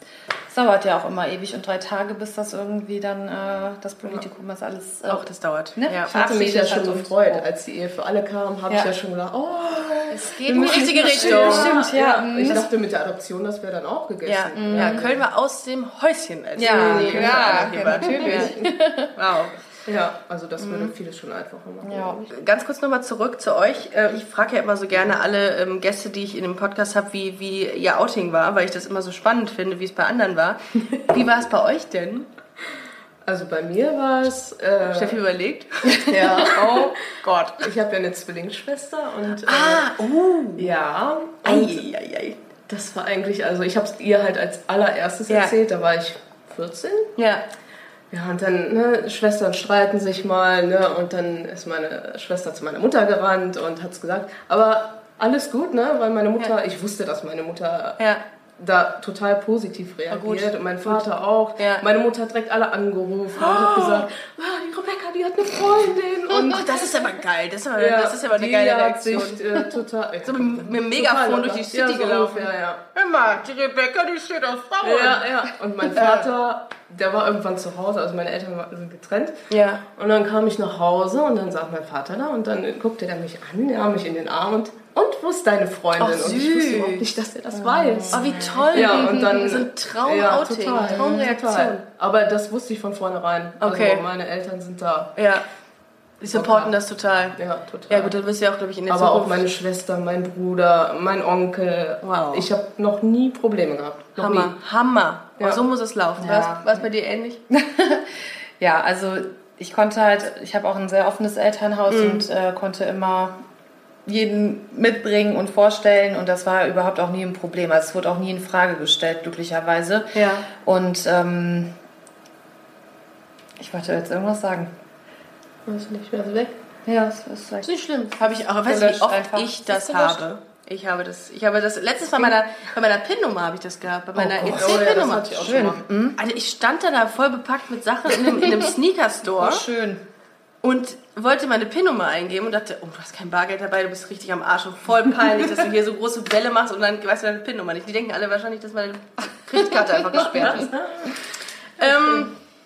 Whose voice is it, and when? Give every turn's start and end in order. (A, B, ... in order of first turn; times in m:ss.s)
0:00.5-0:05.2 A
0:05.0-0:06.1 B
0:05.8-0:07.5 A
0:06.1-0:15.2 C
0:10.1-0:12.6 A
0:10.2-0:11.8 B
0:14.2-0:18.5 B
0:14.5-0:15.1 A
0:16.6-0:19.1 A
0:16.6-0:18.7 C
0:19.2-0:19.6 B
0:19.8-0:22.3 C
0:20.6-0:20.9 A
0:21.8-0:22.2 A
0:22.3-0:32.3 B
0:33.2-0:35.2 C
0:34.8-0:37.7 B
0:36.0-0:36.9 C
0:37.6-0:39.9 C
0:39.4-0:40.8 B
0:40.6-0:41.9 C
0:41.4-0:42.4 B
0:42.7-0:47.1 C
0:45.3-0:45.6 B
0:47.2-0:47.4 B
0:48.1-0:58.0 C
0:58.6-1:06.9 C
1:00.1-1:01.0 B
1:01.6-1:01.8 B
1:03.4-1:04.1 B
1:06.3-1:09.5 B
1:07.8-1:12.8 C
1:10.2-1:15.4 B
1:14.8-1:19.4 C
1:19.5-1:19.8 B
1:20.0-1:35.1 C
1:26.0-1:27.1 B
1:27.6-1:29.2 A
1:28.1-1:31.8 B
1:33.6-1:34.0 B
1:35.2-1:35.4 B
1:36.2-1:37.4 B
1:36.3-1:36.8 C
1:37.3-1:38.1 C
1:37.9-1:39.5 B
1:38.9-1:44.6 C
1:42.0-1:42.5 B
1:44.2-1:47.4 B
1:46.2-1:46.8 A
1:47.5-1:53.4 A
1:51.9-1:52.3 B
1:54.0-2:01.7 A
2:00.1-2:00.5 B
2:03.6-2:04.7 A
2:05.7-2:06.6 C
2:06.8-2:07.7 A
2:07.6-2:19.6 B
2:08.6-2:10.2 A
2:14.2-2:15.8 C
2:14.3-2:16.2 A
2:19.4-2:20.0 A
2:20.6-2:31.1 B
2:30.4-2:31.1 C
2:31.8-2:32.3 B
2:31.8-2:32.3 C